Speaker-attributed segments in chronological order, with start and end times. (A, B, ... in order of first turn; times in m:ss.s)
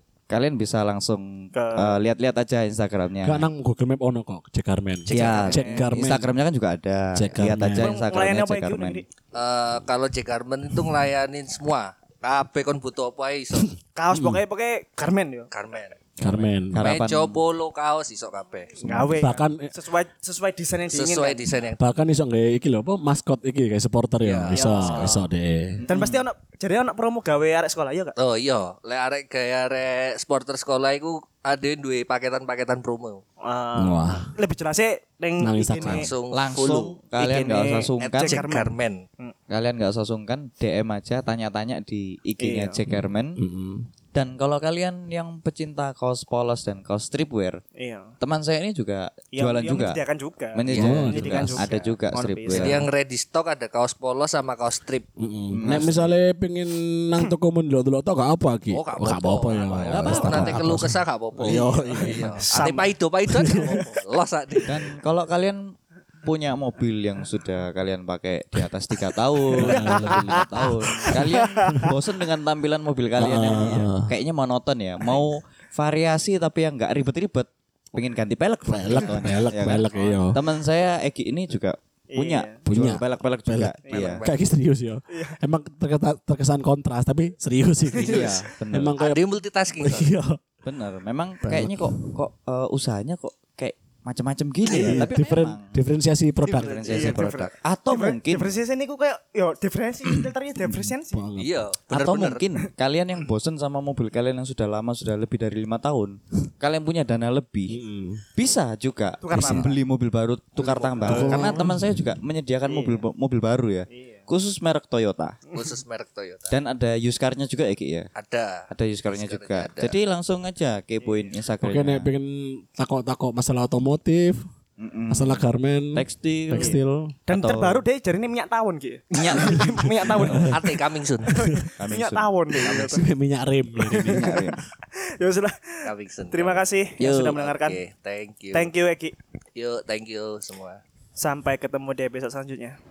0:00.3-0:03.5 A
0:01.5-0:02.0 B
0:03.2-0:06.3 C
0:05.1-0:05.7 D
0:05.1-0:09.0 A
0:05.2-0:05.9 B
0:07.1-0:08.0 C
0:07.8-0:09.0 B
0:09.3-0:13.7 D
0:13.6-0:14.4 C
0:13.9-0:15.5 B
0:15.5-0:16.0 D
0:16.2-0:17.4 A
0:16.2-0:16.9 C
0:16.7-0:18.8 D
0:18.8-0:21.4 B
0:18.8-0:19.2 A
0:18.9-0:19.7 C
0:20.9-0:21.8 D
0:21.8-0:25.8 C
0:24.2-0:25.2 D
0:24.5-0:25.2 B
0:25.8-0:26.2 A
0:25.9-0:28.2 B
0:28.2-0:33.2 D
0:33.4-0:36.1 B
0:33.8-0:34.3 C
0:35.4-0:36.1 C
0:35.8-0:37.0 D
0:36.3-0:38.4 A
0:37.2-0:39.3 B
0:38.1-0:39.0 D
0:39.5-0:43.4 A
0:42.4-0:42.8 B
0:42.9-0:43.9 C
0:44.1-0:47.6 A
0:47.8-0:48.1 B
0:48.2-0:50.0 A
0:49.3-0:52.9 B
0:50.5-0:52.9 A
0:50.7-0:51.7 C
0:52.5-0:55.1 D
0:55.2-1:02.4 C
0:55.5-0:56.1 A
0:58.7-1:04.9 D
0:59.8-1:00.8 A
1:01.8-1:02.9 B
1:03.3-1:03.8 C
1:04.6-1:24.2 A
1:09.5-1:11.1 C
1:09.6-1:11.9 B
1:13.2-1:14.1 C
1:15.0-1:15.3 B
1:18.7-1:20.4 C
1:22.1-1:22.6 B
1:22.6-1:29.2 C
1:23.8-1:24.4 B
1:23.9-1:24.2 D
1:25.1-1:25.4 B
1:27.9-1:28.5 B
1:27.9-1:29.0 A
1:29.0-1:30.1 D
1:29.8-1:30.4 C
1:30.6-1:35.8 A
1:31.4-1:32.1 C
1:34.7-1:37.2 C
1:34.7-1:35.0 D
1:36.4-1:37.2 D
1:36.5-1:38.5 A
1:36.9-1:41.2 B
1:40.7-1:41.6 C
1:41.4-1:42.5 D
1:41.9-1:47.8 A
1:47.7-1:48.2 C
1:48.3-1:55.4 A
1:49.2-1:49.8 B
1:49.4-1:49.7 C
1:50.6-1:51.6 B
1:51.0-1:51.9 C
1:52.6-1:53.0 B
1:53.9-1:54.3 B
1:55.5-1:56.6 D
1:56.5-1:58.1 A
1:58.2-2:00.0 D
1:58.7-2:02.1 A
2:01.0-2:01.3 B
2:01.6-2:04.5 C
2:04.8-2:06.8 A
2:05.1-2:07.1 C
2:06.5-2:13.1 B
2:07.3-2:07.8 A
2:09.1-2:10.5 A
2:10.1-2:10.6 C
2:10.4-2:11.5 D
2:11.3-2:11.7 C
2:11.8-2:13.0 A
2:12.6-2:14.3 C
2:13.8-2:17.8 B
2:13.9-2:14.6 A
2:15.8-2:16.7 D
2:17.0-2:17.4 A
2:17.2-2:18.7 D
2:18.5-2:19.2 B
2:19.5-2:20.8 D
2:21.2-2:22.8 B